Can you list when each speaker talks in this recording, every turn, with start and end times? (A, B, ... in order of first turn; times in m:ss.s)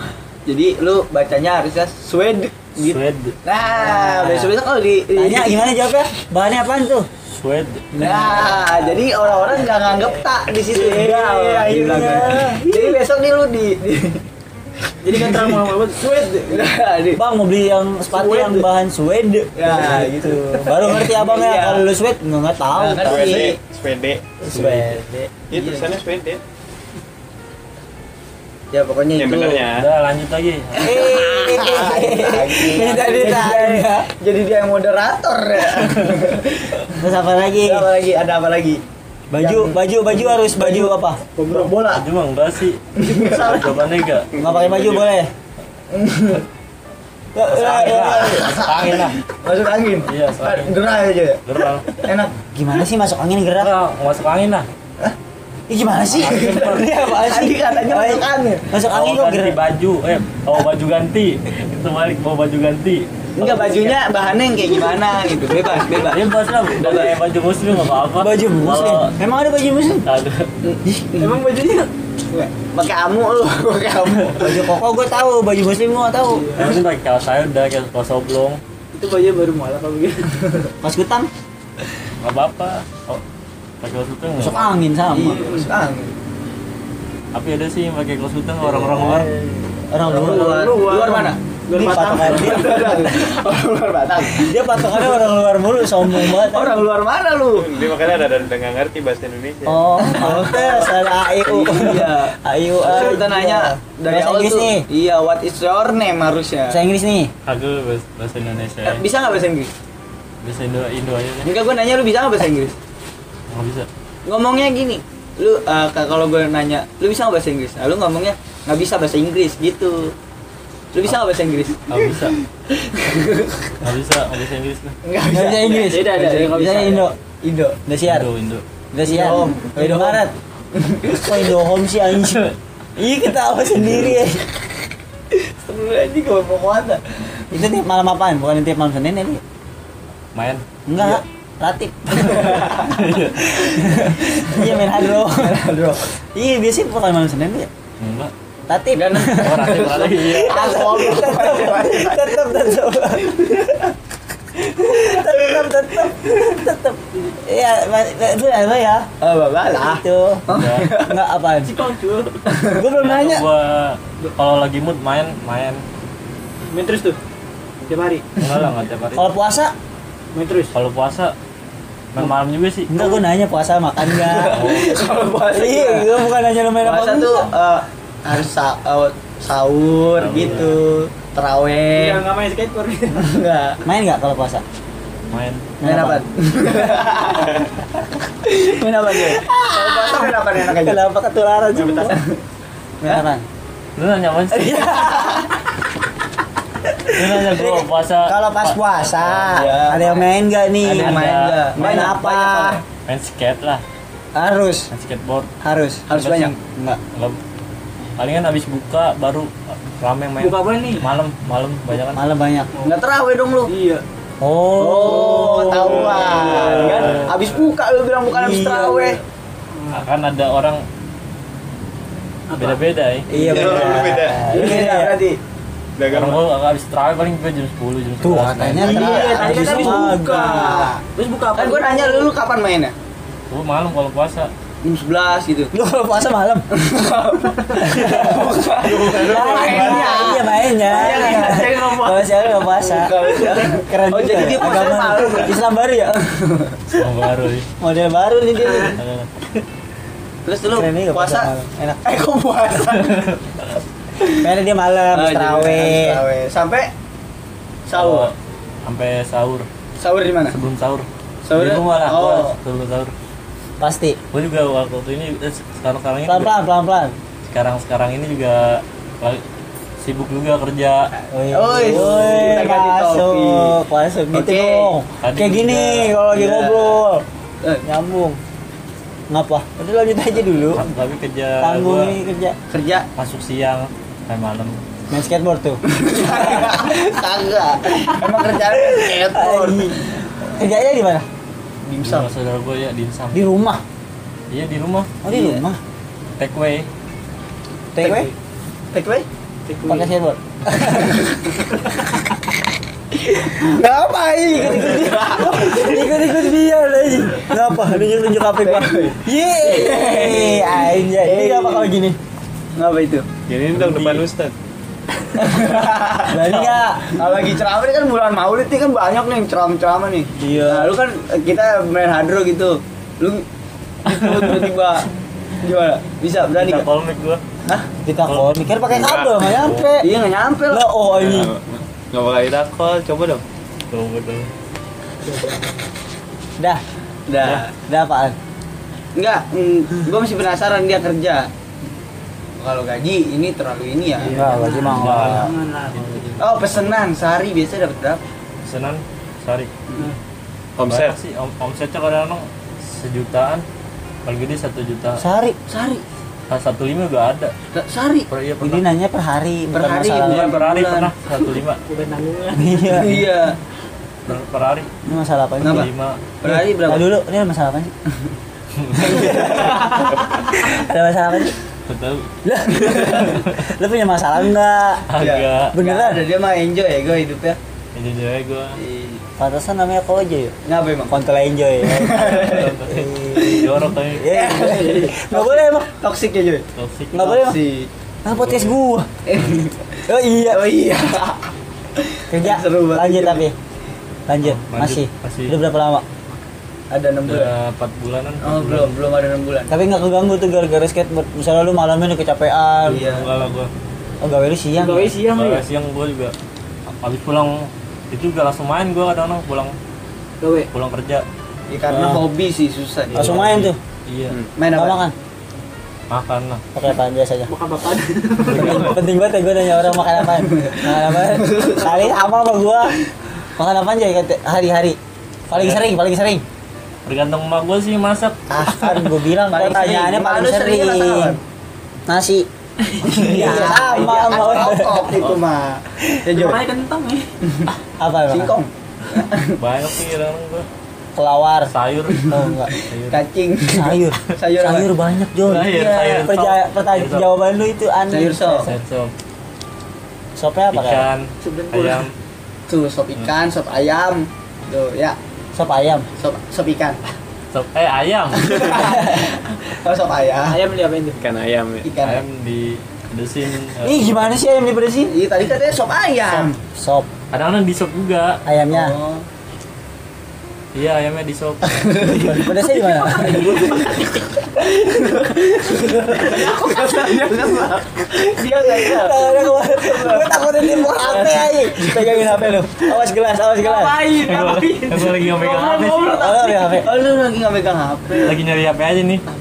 0:00.5-0:05.7 A
0:02.8-0:03.4 B
0:03.7-0:04.5 C
0:05.1-0:07.1 C
0:07.2-0:08.0 B
0:07.9-0:09.0 C
0:08.0-0:14.2 A
0:10.7-0:12.6 C
0:10.7-0:13.0 D
0:15.0-0:16.7 D
0:15.0-0:17.2 A
0:17.1-0:23.6 C
0:18.1-0:18.6 A
0:19.6-0:21.8 A
0:22.7-0:23.6 A
0:23.0-0:24.4 E
0:24.4-0:25.3 C
0:24.5-0:25.0 B
0:25.5-0:26.4 E
0:25.5-0:25.9 A
0:28.7-0:29.7 A
0:29.1-0:29.9 E
0:29.7-0:31.0 B
0:30.8-0:34.1 C
0:30.8-0:37.0 A
0:36.9-0:37.9 C
0:37.6-0:38.8 A
0:39.3-0:41.2 C
0:39.3-0:39.8 A
0:40.4-0:41.8 D
0:41.4-0:42.0 A
0:41.9-0:45.1 B
0:43.0-0:43.8 A
0:44.4-0:45.3 C
0:45.9-0:46.4 A
0:47.3-0:48.6 C
0:47.5-0:49.2 B
0:47.5-0:52.4 A
0:50.0-0:50.8 B
0:51.4-0:51.9 B
0:52.5-0:53.7 C
0:53.6-0:54.7 B
0:55.7-0:59.6 C
0:56.1-0:56.9 B
0:56.2-0:58.7 A
0:58.8-1:03.1 B
1:03.4-1:07.2 A
1:03.4-1:04.0 D
1:05.9-1:09.1 B
1:08.2-1:10.0 C
1:10.0-1:10.5 B
1:10.6-1:11.4 A
1:11.2-1:11.9 D
1:12.3-1:14.7 A
1:14.3-1:16.5 C
1:16.3-1:16.7 D
1:16.5-1:18.6 B
1:18.9-1:20.7 D
1:20.8-1:21.3 C
1:22.2-1:23.2 B
1:23.8-1:24.7 B
1:24.4-1:25.4 C
1:25.1-1:26.1 A
1:25.2-1:25.7 D
1:27.3-1:29.3 B
1:28.6-1:30.8 C
1:29.4-1:33.1 D
1:30.0-1:35.2 A
1:31.7-1:33.0 C
1:34.3-1:36.8 C
1:36.0-1:37.8 A
1:37.5-1:39.9 E
1:39.6-1:44.8 C
1:40.0-1:46.8 A
1:46.7-1:47.3 C
1:47.4-1:49.0 B
1:48.8-1:49.7 A
1:50.4-1:51.5 B
1:51.4-1:52.8 A
1:53.5-1:53.9 B
1:54.2-2:00.1 A
2:00.9-2:03.8 A
2:01.9-2:02.4 B
2:03.8-2:05.0 B
2:05.0-2:06.8 A
2:05.2-2:07.2 C
2:05.8-2:07.1 D
2:07.4-2:07.8 A
2:07.8-2:08.3 C
2:08.0-2:08.6 B
2:08.9-2:10.3 C
2:09.0-2:11.5 A
2:11.0-2:14.5 C
2:15.3-2:17.6 A
2:17.5-2:19.4 C
2:20.3-2:20.6 B
2:20.9-2:25.6 C
2:22.2-2:26.1 A
2:22.8-2:23.5 B
2:26.3-2:27.7 C
2:28.0-2:28.3 B
2:28.7-2:33.7 C
2:28.9-2:32.4 A
2:29.2-2:30.8 B
2:34.7-2:39.1 C
2:39.2-2:41.2 A
2:39.8-2:40.4 C
2:40.5-2:40.9 B
2:41.0-2:41.7 C
2:41.6-2:42.4 D
2:42.4-2:42.8 A
2:42.7-2:43.4 C
2:42.9-2:45.8 B
2:46.7-2:47.2 D
2:47.8-2:48.2 D
2:48.4-2:49.3 B
2:49.1-2:49.7 C
2:50.3-2:50.7 D
2:50.7-2:51.3 B
2:52.1-2:53.2 B
2:52.9-2:54.7 C
2:54.2-2:56.1 D
2:54.5-2:55.4 A
2:54.5-2:54.8 B
2:55.5-2:57.5 C
2:56.8-3:02.3 A
3:00.2-3:00.8 B
3:00.3-3:00.7 D
3:01.9-3:03.2 D
3:03.1-3:03.8 A
3:03.8-3:04.6 C
3:05.3-3:05.7 B
3:05.8-3:06.2 C
3:05.8-3:07.7 A
3:08.4-3:11.0 A
3:09.3-3:12.2 C
3:11.9-3:12.4 A
3:13.0-3:13.4 C
3:14.0-3:15.1 B
3:14.5-3:15.5 A
3:17.1-3:19.6 B
3:17.1-3:22.8 C
3:19.4-3:20.2 A
3:20.8-3:22.8 A
3:20.9-3:22.1 B
3:23.0-3:23.8 B
3:24.3-3:24.9 C
3:24.9-3:25.5 B
3:25.6-3:27.0 C
3:26.1-3:26.6 A
3:26.1-3:26.5 B
3:27.1-3:27.4 B
3:28.2-3:32.2 B
3:30.4-3:31.1 D
3:32.1-3:32.7 C
3:32.8-3:33.7 A
3:33.7-3:34.0 D
3:34.4-3:37.0 C
3:34.8-3:39.2 A
3:35.7-3:37.3 B
3:38.3-3:39.2 C
3:39.8-3:40.0 D
3:39.9-3:40.8 B
3:42.5-3:42.8 D
3:42.5-3:43.3 B
3:43.3-3:45.2 C
3:43.3-3:45.4 A
3:43.5-3:44.5 E
3:46.0-3:46.5 E
3:46.1-3:49.0 B
3:48.2-3:50.8 C
3:48.8-3:51.0 A
3:48.8-3:52.3 D
3:51.5-3:52.9 A
3:53.5-3:54.5 B
3:54.8-3:55.7 A
3:55.7-3:56.7 C
3:56.7-4:01.8 A
3:57.7-3:58.4 D
3:58.8-4:00.0 B
3:58.9-4:06.3 C
3:59.2-4:02.7 D
4:02.9-4:05.6 A
4:06.4-4:06.8 A
4:06.9-4:07.7 B
4:07.8-4:09.0 C
4:08.6-4:08.9 D
4:09.0-4:09.3 B
4:10.4-4:11.5 A
4:10.6-4:12.0 C
4:12.0-4:13.4 A
4:14.2-4:14.5 A
4:14.3-4:16.2 C
4:15.1-4:16.9 A
4:17.9-4:18.3 A
4:17.9-4:18.3 B
4:18.8-4:19.7 B
4:20.0-4:20.6 A
4:20.5-4:23.1 B
4:21.4-4:22.5 A
4:23.8-4:24.2 C
4:24.3-4:26.6 B
4:26.2-4:27.2 C
4:27.5-4:29.4 B
4:30.0-4:31.1 B
4:31.3-4:37.2 C
4:31.5-4:33.7 A
4:31.8-4:32.6 B
4:34.3-4:34.9 A
4:35.2-4:36.2 B
4:36.3-4:37.0 A
4:37.8-4:38.4 C
4:39.3-4:40.8 C
4:40.7-4:42.2 B
4:41.6-4:42.6 C
4:42.7-4:43.0 A
4:43.2-4:44.8 B
4:45.1-4:45.8 C
4:45.9-4:49.9 A
4:48.8-4:51.2 C
4:51.8-4:52.3 A
4:52.0-4:53.4 B
4:53.3-4:53.8 C
4:54.5-4:55.1 B
4:55.2-4:55.8 C
4:55.3-4:55.6 A
4:56.4-4:56.9 B
4:57.9-4:58.3 C
4:58.0-4:58.3 D
4:58.9-4:59.2 A
4:59.7-5:00.1 D
4:59.9-5:01.3 C
5:01.0-5:01.3 A
5:03.2-5:06.2 A
5:03.6-5:12.2 C
5:08.6-5:11.9 A
5:12.7-5:13.3 A
5:13.5-5:14.5 E
5:13.7-5:14.2 B
5:15.3-5:23.4 A
5:16.3-5:17.1 C
5:16.5-5:16.8 B
5:20.4-5:20.9 C
5:24.0-5:25.1 A
5:24.1-5:24.5 B
5:25.6-5:26.8 A
5:26.6-5:27.4 B
5:28.0-5:30.1 C
5:28.9-5:29.5 E
5:29.4-5:30.0 B
5:30.0-5:31.0 A
5:30.7-5:31.5 C
5:31.1-5:33.4 E
5:33.9-5:34.5 B
5:35.2-5:35.7 D
5:37.3-5:37.7 A
5:37.9-5:38.4 C
5:39.1-5:41.5 A
5:42.6-5:44.4 A
5:44.2-5:46.4 D
5:44.3-5:45.5 C
5:44.9-5:46.9 B
5:46.4-5:48.2 A
5:48.6-5:49.7 B
5:50.8-5:51.2 E
5:50.8-5:53.6 B
5:54.2-5:55.2 B
5:55.2-5:55.6 C
5:55.7-5:56.0 A
5:56.5-5:57.5 B
5:57.7-5:58.2 A
5:58.3-5:58.8 B
5:58.6-6:00.5 C
5:59.7-6:01.1 A
6:00.2-6:01.8 B
6:01.8-6:03.3 D
6:02.5-6:03.2 C
6:02.9-6:03.6 A
6:04.2-6:04.9 B
6:05.0-6:05.9 C
6:05.6-6:05.9 A
6:05.6-6:06.2 B
6:06.4-6:07.1 A
6:06.4-6:07.9 C
6:08.7-6:09.4 B
6:09.0-6:11.6 C
6:09.0-6:10.0 A
6:11.9-6:12.3 B
6:12.4-6:15.1 C
6:12.8-6:13.3 A
6:13.0-6:13.5 B
6:15.1-6:15.8 B
6:15.2-6:17.6 A
6:15.7-6:16.2 C
6:17.9-6:18.8 B
6:18.8-6:19.2 A
6:19.4-6:20.5 C
6:20.6-6:21.2 A
6:21.1-6:25.9 C
6:21.8-6:22.7 A
6:22.2-6:24.3 B
6:23.4-6:23.6 A
6:24.3-6:26.6 A
6:26.8-6:27.4 B
6:27.1-6:27.6 C
6:27.2-6:27.9 A
6:28.2-6:29.1 C
6:28.3-6:28.7 B
6:29.2-6:33.4 A
6:30.1-6:30.6 C
6:32.3-6:33.5 C
6:34.3-6:36.0 C
6:34.4-6:35.6 B
6:36.9-6:37.5 A
6:37.2-6:39.0 B
6:38.4-6:39.8 A
6:39.7-6:43.1 C
6:42.8-6:43.7 B
6:42.9-6:43.2 A
6:44.2-6:45.1 C
6:44.7-6:45.6 D
6:45.2-6:46.3 B
6:47.0-6:49.7 B
6:50.4-6:50.7 D
6:50.7-6:51.2 B
6:51.7-6:53.5 A
6:51.8-6:52.2 B
6:53.1-6:54.4 B
6:53.1-6:53.8 C
6:54.6-6:55.0 A
6:54.7-6:55.1 C
6:56.1-6:56.6 B
6:56.7-6:57.5 C
6:57.5-6:59.0 D
6:58.4-7:03.0 C
6:58.6-6:58.9 B
7:01.5-7:01.9 A
7:03.6-7:05.0 C
7:05.5-7:06.4 C
7:05.5-7:05.8 B
7:07.0-7:08.4 B
7:08.5-7:11.4 A
7:08.5-7:11.4 C
7:12.1-7:12.5 C
7:12.8-7:14.1 D
7:13.0-7:15.2 C
7:13.1-7:16.6 A
7:16.3-7:17.3 D
7:18.0-7:18.6 C
7:18.3-7:19.6 A
7:19.6-7:20.7 B
7:21.1-7:21.7 C
7:21.7-7:23.2 B
7:22.3-7:22.7 C
7:23.1-7:24.9 A
7:23.7-7:28.7 C
7:25.4-7:27.3 B
7:28.1-7:28.7 A
7:28.3-7:29.1 B
7:30.4-7:31.0 C
7:30.7-7:32.1 B
7:31.4-7:32.0 D
7:32.7-7:35.2 A
7:35.5-7:36.1 C
7:36.2-7:37.0 A
7:37.5-7:38.8 B
7:38.3-7:40.6 A
7:40.5-7:41.2 D
7:41.2-7:41.9 E
7:41.8-7:42.2 A
7:42.0-7:44.2 B
7:43.8-7:45.1 C
7:45.1-7:46.6 A
7:46.6-7:47.1 C
7:47.3-7:48.4 B
7:48.4-7:49.0 C
7:48.7-7:49.2 A
7:50.7-7:51.9 B
7:51.7-7:53.9 A
7:52.2-7:53.8 C
7:53.0-7:54.1 D
7:54.6-8:02.9 A
7:54.9-7:55.2 D
7:55.7-7:57.5 D
7:58.7-8:04.0 C
8:03.6-8:06.8 D
8:04.1-8:06.2 B
8:06.1-8:06.9 C
8:06.7-8:08.4 A
8:08.2-8:09.2 B